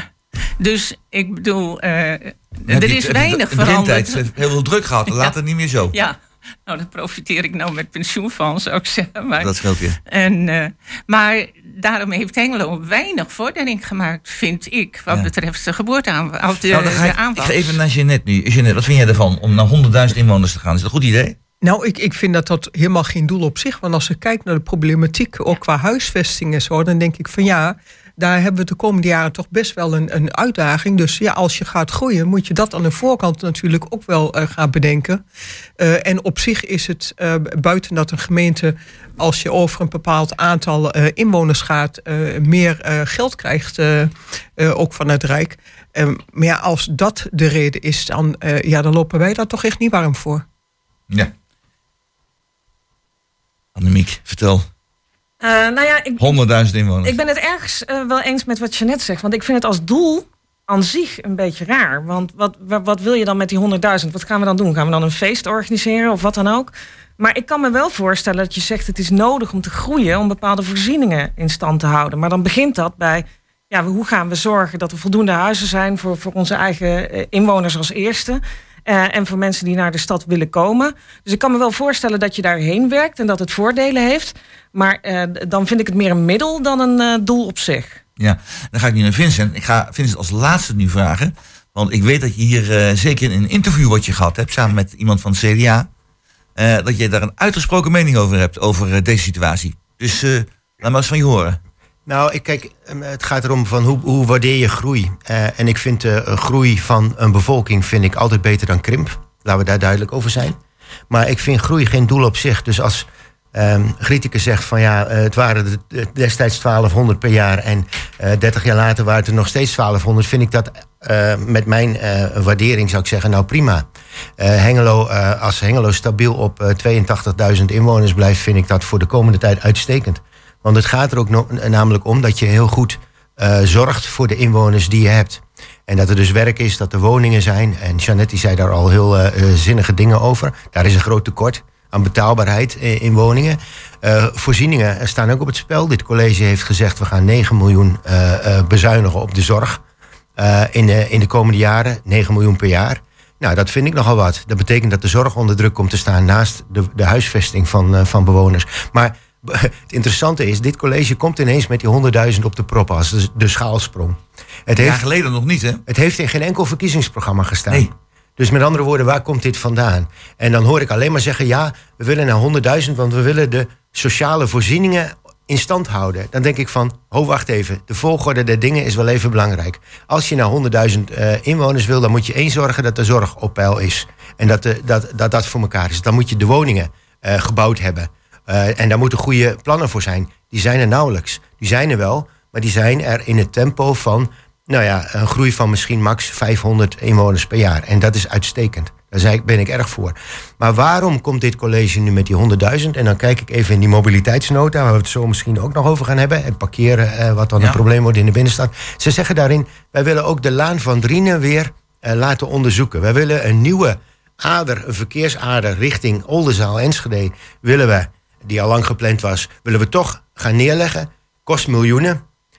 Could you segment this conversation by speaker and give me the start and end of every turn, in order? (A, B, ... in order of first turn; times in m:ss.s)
0:00.6-0:04.3 A
0:02.7-0:06.0 B
0:05.1-0:05.3 A
0:05.9-0:17.8 A
0:09.4-0:10.0 B
0:16.6-0:21.4 B
0:21.6-0:35.2 C
0:35.8-0:50.4 C
0:53.7-0:54.7 B
0:55.4-0:56.4 D
0:56.2-0:57.2 B
0:57.0-1:28.0 D
1:28.2-1:35.9 B
1:36.6-1:41.6 B
1:42.0-1:50.6 E
1:51.1-2:03.9 E
2:04.4-2:29.8 E
2:30.4-2:45.0 E
2:44.8-2:45.8 B
2:45.9-3:42.2 E